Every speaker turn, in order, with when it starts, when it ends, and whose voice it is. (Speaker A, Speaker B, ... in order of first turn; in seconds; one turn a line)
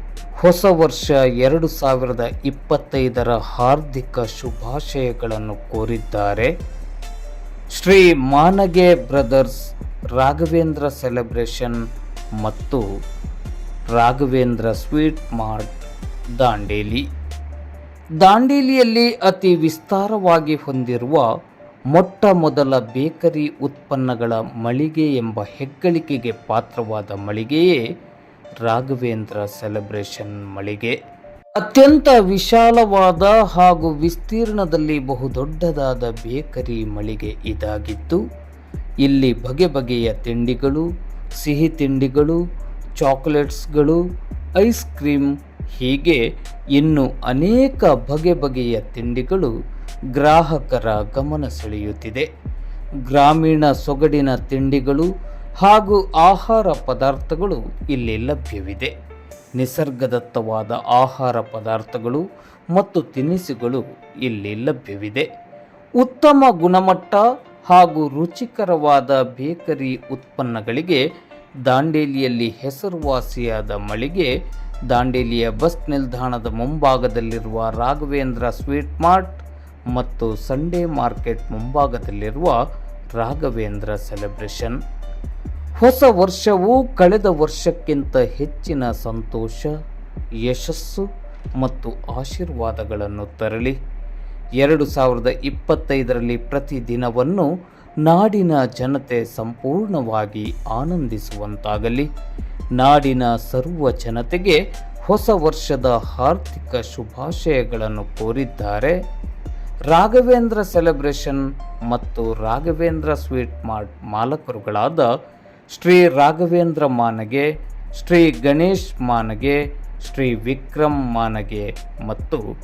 Speaker A: 0.4-6.5
Speaker A: 7.8-9.6
Speaker A: 10.2-11.8
Speaker A: 12.4-12.8
Speaker A: 13.9-15.8
Speaker A: 16.4-17.0
Speaker A: 18.2-21.2
Speaker A: 21.9-27.8
Speaker A: 28.6-30.9
Speaker A: 31.6-38.2
Speaker A: 39.0-40.8
Speaker A: 41.4-42.4
Speaker A: 43.0-44.0
Speaker A: 44.6-46.2
Speaker A: 46.7-49.5
Speaker A: 50.1-52.3
Speaker A: 53.1-55.1
Speaker A: 55.6-58.9
Speaker A: 59.6-65.2
Speaker A: 66.0-71.0
Speaker A: 71.6-74.3
Speaker A: 74.9-82.6
Speaker A: 83.2-84.8
Speaker A: 85.8-89.7
Speaker A: 90.4-91.0
Speaker A: 91.6-93.7
Speaker A: 94.6-97.5
Speaker A: 98.0-102.1
Speaker A: 102.8-108.9
Speaker A: 109.9-115.1
Speaker A: 115.7-117.5
Speaker A: 118.0-122.4